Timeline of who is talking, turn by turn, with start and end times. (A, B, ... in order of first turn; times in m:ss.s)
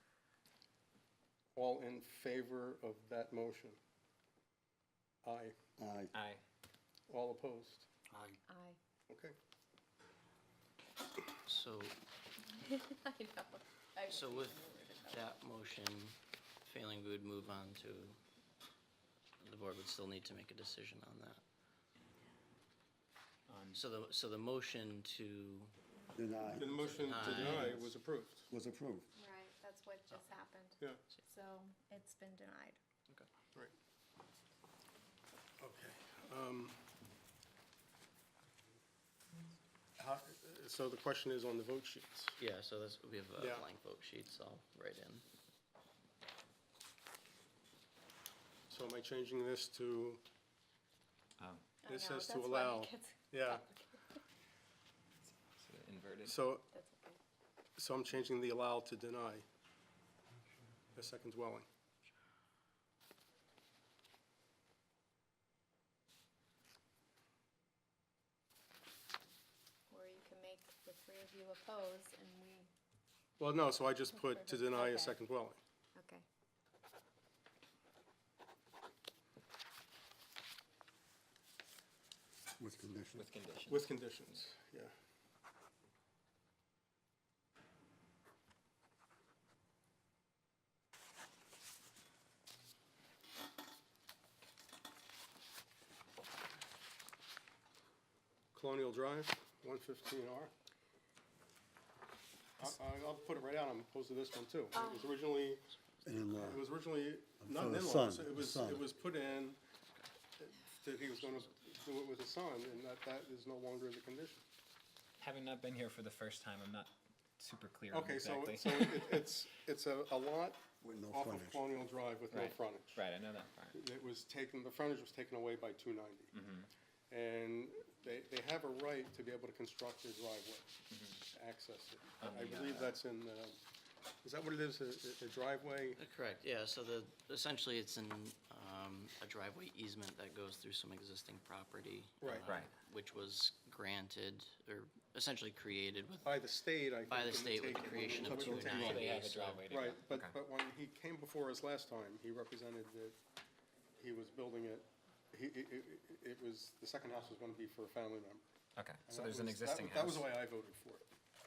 0:01.5-0:03.8 A
0:05.2-0:05.6 A
0:05.8-0:06.1 B
0:06.1-0:06.4 C
0:07.1-0:07.9 A
0:08.5-0:08.8 D
0:09.1-0:09.4 A
0:11.4-0:12.0 E
0:12.5-0:15.4 D
0:14.1-0:14.6 E
0:15.1-0:18.2 E
0:19.4-0:21.4 E
0:23.5-0:23.8 C
0:23.8-0:25.7 E
0:26.2-0:27.9 B
0:26.5-0:28.5 A
0:26.9-0:27.8 E
0:28.5-0:29.1 B
0:29.2-0:32.8 D
0:35.6-0:36.8 A
0:40.0-0:42.4 A
0:42.4-0:45.2 E
0:43.4-0:43.7 A
0:48.7-0:50.2 A
0:51.4-0:51.6 C
0:51.8-0:54.2 D
0:51.9-0:53.6 A
0:55.2-0:56.5 C
0:56.2-0:56.6 A
0:56.7-0:57.2 D
0:57.8-0:59.4 A
1:01.0-1:01.7 A
1:09.9-1:12.7 D
1:13.4-1:15.6 A
1:14.2-1:15.2 D
1:16.0-1:16.3 D
1:22.6-1:23.3 B
1:23.2-1:24.0 C
1:23.7-1:24.9 A
1:38.5-1:40.5 A
1:42.6-1:45.7 A
1:44.8-1:45.1 D
1:46.0-1:46.6 B
1:46.3-1:49.6 A
1:47.4-1:48.8 B
1:50.4-1:54.4 A
1:55.2-1:59.4 C
1:57.9-2:03.0 A
2:00.8-2:01.6 B
2:02.3-2:03.8 C
2:03.7-2:06.3 A
2:06.3-2:06.7 C
2:07.1-2:10.7 A
2:10.9-2:11.2 C
2:11.2-2:13.6 A
2:12.2-2:12.9 C
2:14.2-2:16.0 A
2:16.0-2:26.4 E
2:22.2-2:22.5 A
2:22.4-2:22.7 C
2:26.2-2:33.2 A
2:27.1-2:29.6 E
2:28.0-2:28.9 B
2:28.3-2:30.4 C
2:34.0-2:38.4 A
2:38.8-2:40.3 C
2:39.1-2:41.0 A